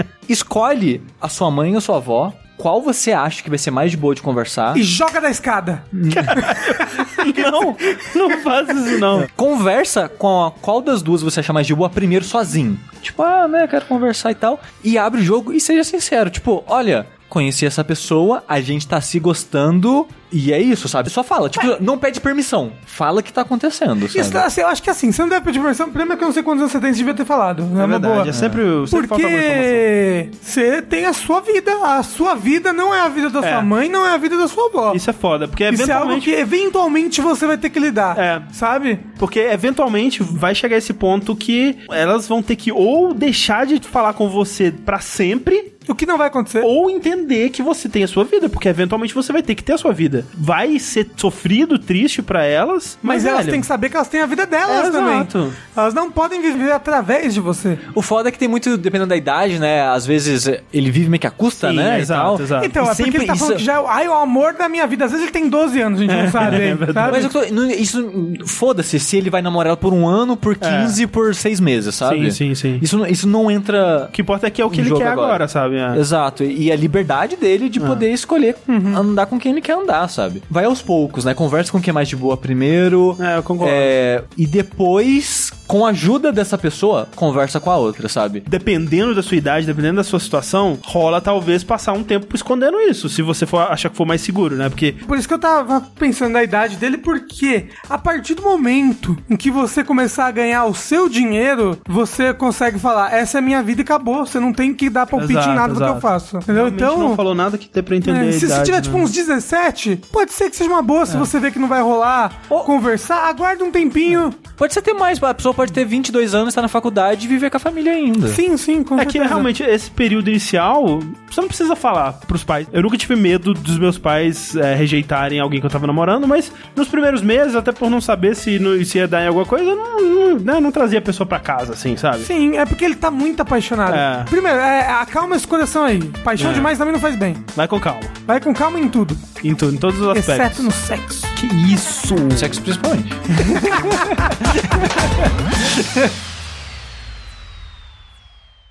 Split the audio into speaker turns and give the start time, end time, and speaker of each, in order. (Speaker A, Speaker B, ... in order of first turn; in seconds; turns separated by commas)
Speaker A: 0.3-4.8, Speaker B: 4.7-7.0, Speaker C: 5.9-9.3, Speaker A: 7.3-7.7, Speaker A: 9.2-24.4, Speaker B: 24.1-28.3, Speaker C: 27.8-29.8, Speaker A: 28.3-28.6, Speaker B: 28.9-35.0, Speaker C: 33.4-33.7, Speaker C: 34.9-36.3, Speaker B: 35.7-39.1, Speaker C: 38.1-38.5, Speaker C: 39.1-45.7, Speaker B: 45.9-46.7, Speaker C: 46.6-53.6, Speaker B: 53.0-57.8, Speaker C: 54.7-55.6, Speaker A: 57.9-63.6, Speaker C: 61.6-62.7, Speaker B: 62.6-67.3, Speaker C: 66.1-67.3, Speaker A: 66.5-74.1, Speaker C: 70.6-71.0, Speaker C: 72.0-72.8, Speaker C: 74.1-76.0, Speaker A: 74.7-88.4, Speaker B: 78.7-79.0, Speaker C: 83.2-83.9, Speaker C: 88.5-95.0, Speaker B: 95.0-107.2, Speaker C: 105.1-109.1, Speaker B: 108.0-114.3, Speaker A: 114.5-118.4, Speaker B: 118.3-119.5, Speaker C: 119.0-132.3, Speaker B: 132.2-137.4, Speaker C: 133.9-134.3, Speaker C: 136.4-136.7, Speaker C: 137.5-138.1, Speaker B: 138.3-139.2, Speaker C: 139.4-140.7, Speaker B: 140.1-141.3, Speaker C: 141.3-142.6, Speaker A: 142.3-146.1